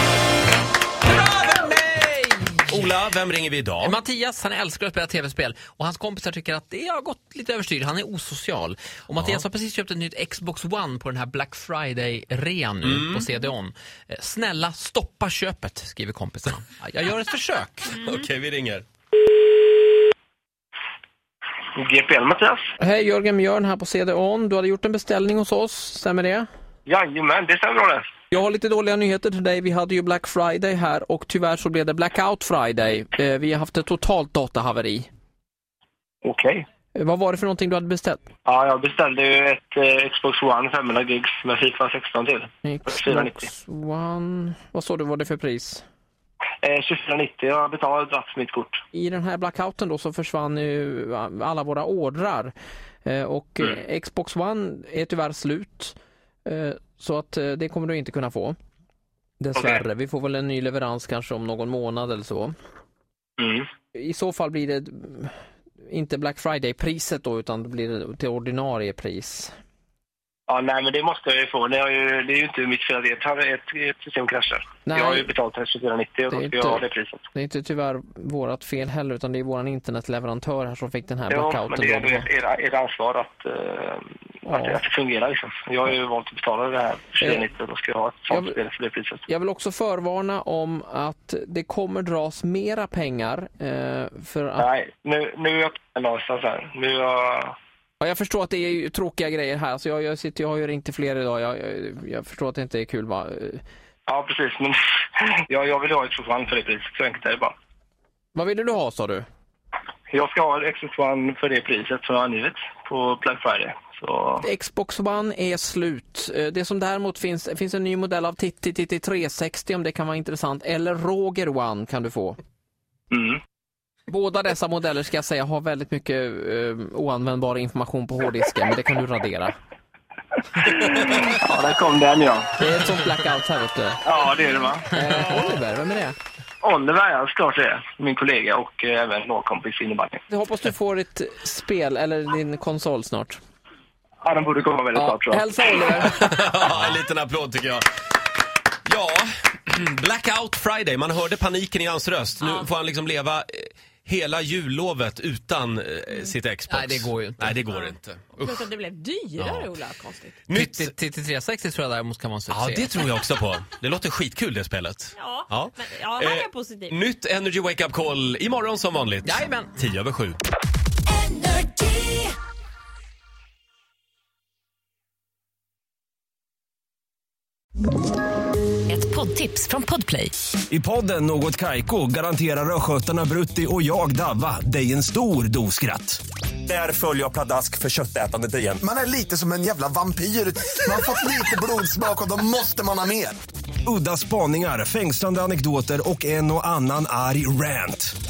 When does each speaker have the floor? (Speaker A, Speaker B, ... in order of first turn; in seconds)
Speaker A: 1.1-2.8, 3.8-18.0, 156.7-157.6, 160.5-163.0, 169.2-169.7
Speaker B: 2.7-4.0, 12.8-13.2, 17.9-18.8, 146.0-147.8, 148.8-158.6, 160.5-160.9, 162.5-170.4
Speaker C: 21.8-22.6, 26.9-28.1, 36.2-36.6, 38.5-43.3, 46.6-48.8, 63.4-63.7, 70.5-77.3, 81.3-84.1, 84.7-89.2, 94.6-97.5, 104.1-107.5, 110.1-114.4, 123.1-123.4, 131.4-132.5, 134.1-134.9, 136.6-140.2, 144.2-145.4
Speaker D: 22.8-26.5, 28.3-35.1, 36.9-38.3, 42.6-45.8, 48.9-52.5, 53.0-58.6, 59.4-62.5, 63.9-69.5, 74.8-75.4, 76.3-82.3, 84.5-84.9, 87.2-87.5, 88.3-88.6, 89.2-94.7, 98.0-103.6, 108.3-109.3, 114.4-122.4, 124.1-129.6, 132.6-134.1, 134.9-136.2, 140.3-143.4, 144.9-146.2
Speaker E: 158.4-160.4, 165.2-166.9
Speaker F: 171.3-172.1, 178.9-180.3
Speaker G: 180.7-188.7, 193.8-198.1
Speaker H: 188.8-193.4